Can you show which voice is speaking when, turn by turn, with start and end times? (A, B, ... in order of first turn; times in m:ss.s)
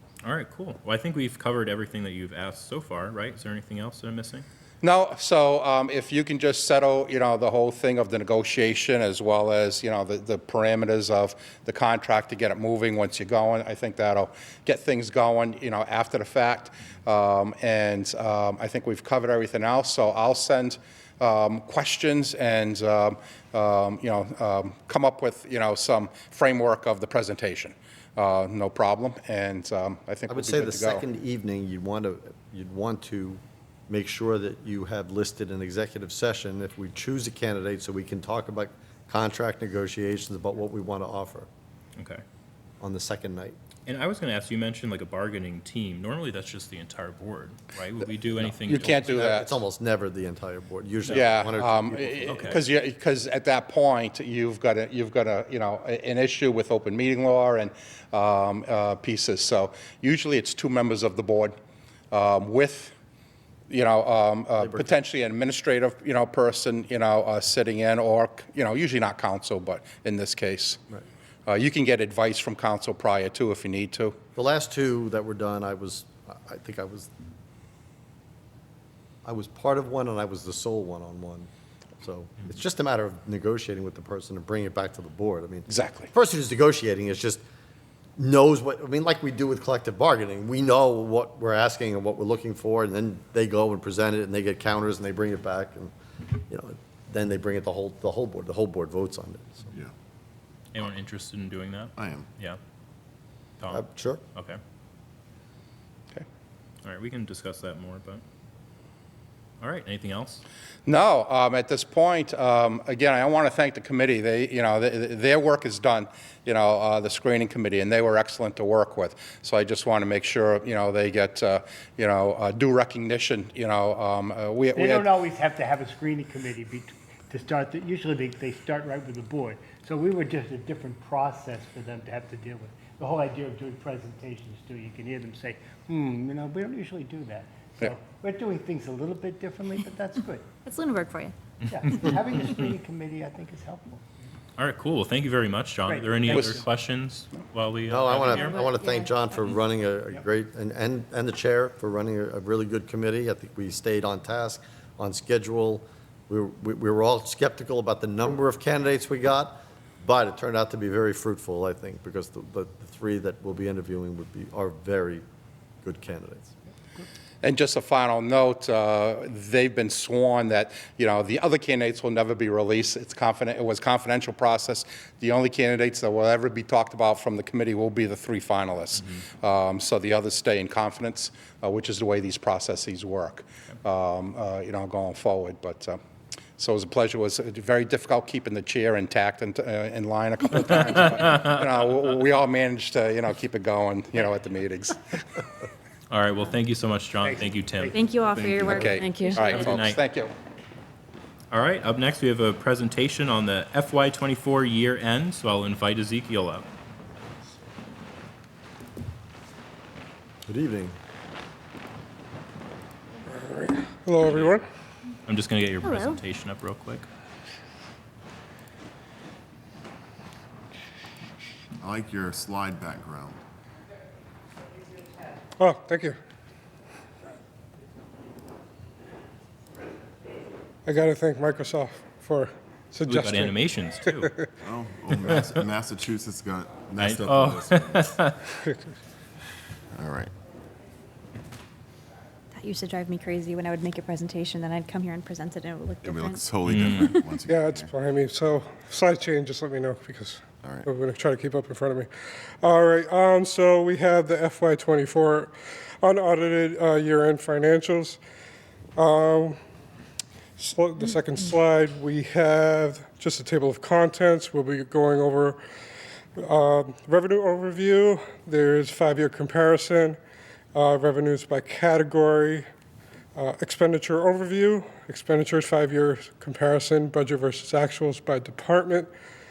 0:00.2-0:04.4 A
0:04.8-0:31.0 B
0:30.3-0:41.5 C
0:42.0-0:42.2 A
0:42.8-0:43.6 C
0:43.8-0:49.1 A
0:48.4-0:52.6 C
0:48.6-0:49.6 B
0:51.1-1:01.5 B
0:52.3-0:52.6 A
1:02.1-1:02.9 B
1:03.7-1:10.8 B
1:04.6-1:04.9 C
1:11.5-1:14.2 B
1:14.3-1:17.1 C
1:19.2-1:27.4 C
1:25.7-1:26.1 B
1:28.2-1:39.7 C
1:40.7-1:42.6 A
1:42.0-1:42.3 D
1:43.6-1:44.6 A
1:43.7-1:44.2 C
1:46.8-1:48.2 A
1:49.6-1:50.4 A
1:50.8-2:05.1 B
2:04.7-2:20.5 E
2:20.6-2:21.3 F
2:21.7-2:24.0 E
2:24.6-2:28.6 A
2:25.9-2:26.6 E
2:27.9-2:45.2 C
2:28.4-2:29.2 F
2:45.8-2:46.5 C
2:47.4-3:06.0 B
3:06.6-3:15.0 B
3:16.1-3:18.0 A
3:17.2-3:18.0 E
3:17.9-3:19.7 F
3:18.2-3:18.9 D
3:18.6-3:20.3 B
3:19.3-3:20.0 A
3:21.5-3:26.7 A
3:30.5-3:31.0 C
3:33.3-3:34.6 G
3:35.3-3:37.0 A
3:41.8-3:43.4 D
3:45.6-3:46.2 G
3:50.8-3:54.5 G
3:53.0-3:54.3 A
3:54.6-3:58.2 D
3:55.2-3:55.4 A
3:57.0-3:58.3 A
3:59.9-4:00.3 D
4:02.5-4:06.4 F
4:06.0-4:07.9 D
4:06.6-4:07.2 A
4:07.4-4:12.1 G
4:12.6-4:18.2 G
4:19.0-4:19.6 G
4:20.6-4:25.6 G
4:26.4-4:30.2 G
4:30.7-4:32.6 G
4:33.4-4:39.1 G